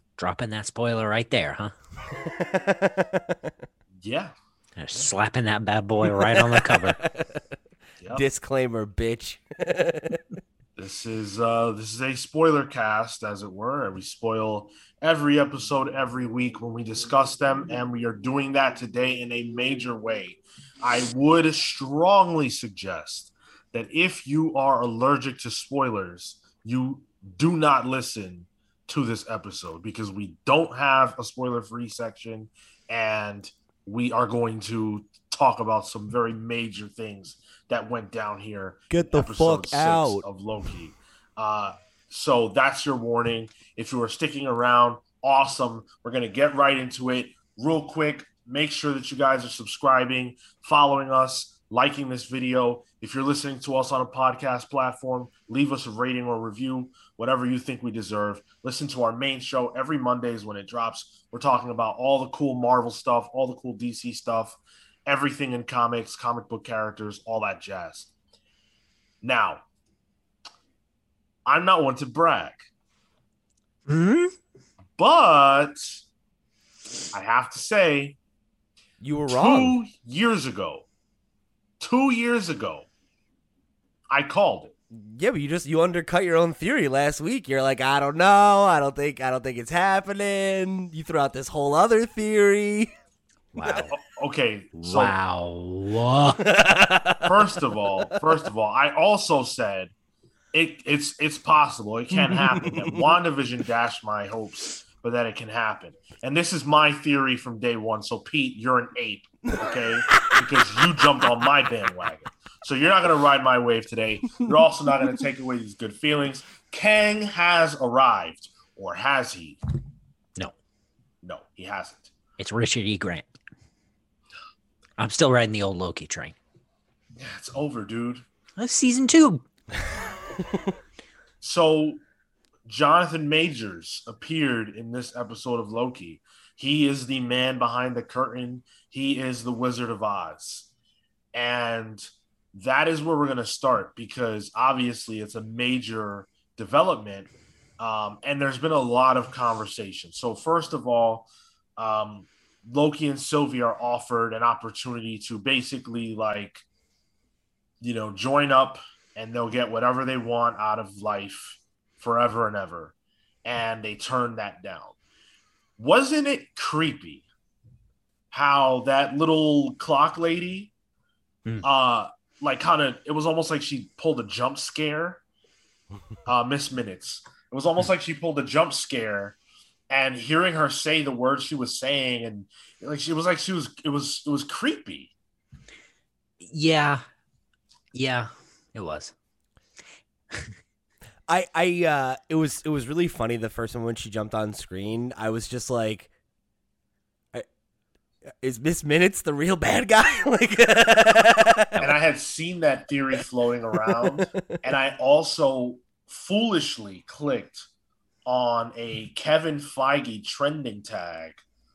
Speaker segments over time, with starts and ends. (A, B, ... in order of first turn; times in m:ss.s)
0:00.2-0:01.7 A
0:02.1-0:03.5 B
0:04.0-0:04.3 C
0:04.8-0:07.0 A
0:06.0-0:07.4 B
0:08.1-0:10.2 B
0:10.8-1:08.1 C
0:38.9-0:40.2 B
1:09.2-1:09.6 C
1:11.4-1:12.7 C
1:13.9-1:14.3 A
1:15.0-1:16.0 C
1:17.1-1:18.2 C
1:19.0-1:19.8 B
1:19.3-1:20.9 C
1:21.8-1:22.9 C
1:24.1-1:24.7 C
1:24.9-1:32.9 B
1:33.5-1:33.9 A
1:33.9-1:35.1 C
1:34.8-1:36.4 A
1:36.4-1:37.3 B
1:37.2-1:39.9 C
1:40.5-1:59.6 C
1:42.6-1:43.0 B
1:49.6-1:50.4 B
2:01.2-2:02.1 C
2:02.4-2:03.3 A
2:05.0-2:06.3 A
2:07.2-2:08.2 C
2:08.6-2:09.4 A
2:11.4-2:12.0 C
2:12.7-2:20.7 C
2:21.3-2:36.6 C
2:37.8-2:45.0 C
2:45.8-2:47.3 C
2:48.3-2:50.7 C
2:51.6-2:55.2 C
2:56.2-2:59.4 C
2:59.9-3:05.1 C
3:06.4-3:07.0 A
3:07.9-3:09.1 A
3:11.3-3:16.1 B
3:18.4-3:21.8 B
3:21.8-3:27.7 C
3:24.0-3:24.4 B
3:28.2-3:31.4 C